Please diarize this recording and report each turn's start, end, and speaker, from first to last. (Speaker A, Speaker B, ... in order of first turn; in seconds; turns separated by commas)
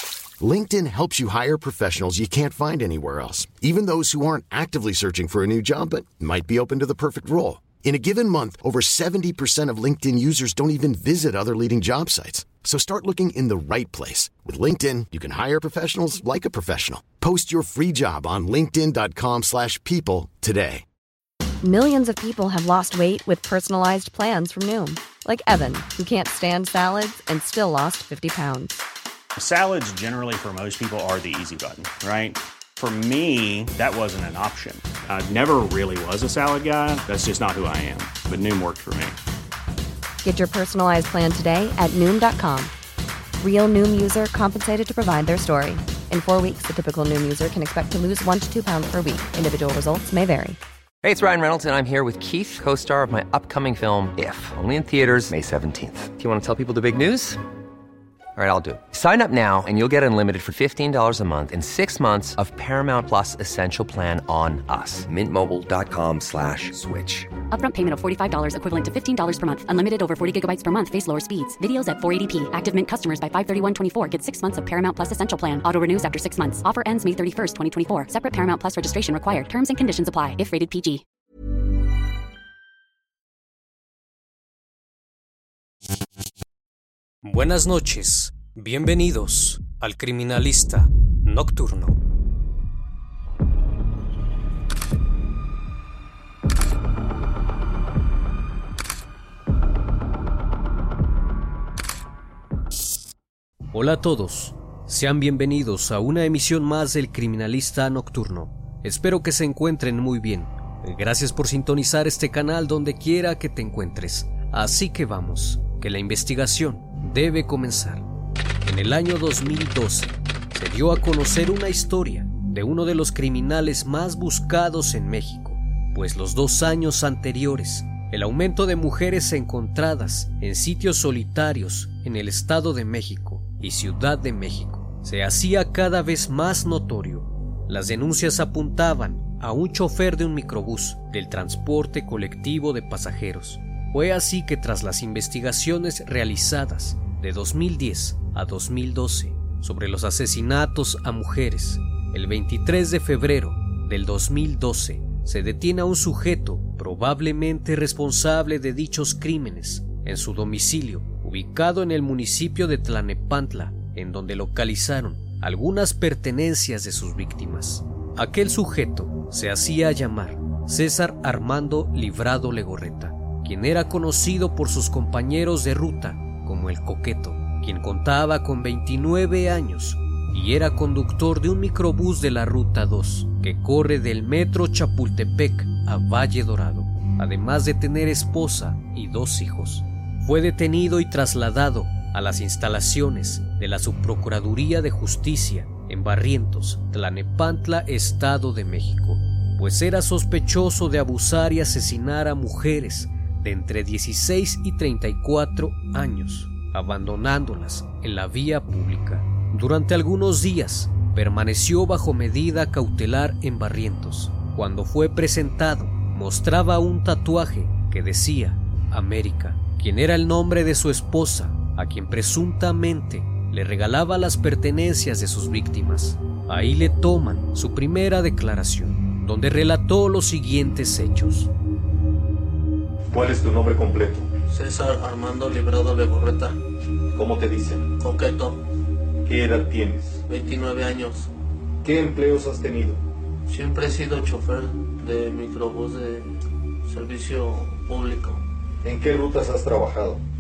Speaker A: 0.4-20.9, Speaker B: 21.6-28.8, Speaker C: 29.4-39.2, Speaker B: 40.2-42.7, Speaker B: 43.4-50.6, Speaker D: 51.0-57.4, Speaker D: 58.4-67.3, Speaker E: 67.5-81.0, Speaker F: 87.2-92.0, Speaker F: 103.7-118.0, Speaker F: 118.7-231.5, Speaker G: 233.1-234.3, Speaker H: 234.5-236.6, Speaker G: 237.1-237.8, Speaker H: 238.0-238.6, Speaker G: 239.2-240.2, Speaker H: 240.3-241.3, Speaker G: 241.8-243.0, Speaker H: 243.5-248.4, Speaker G: 248.8-250.2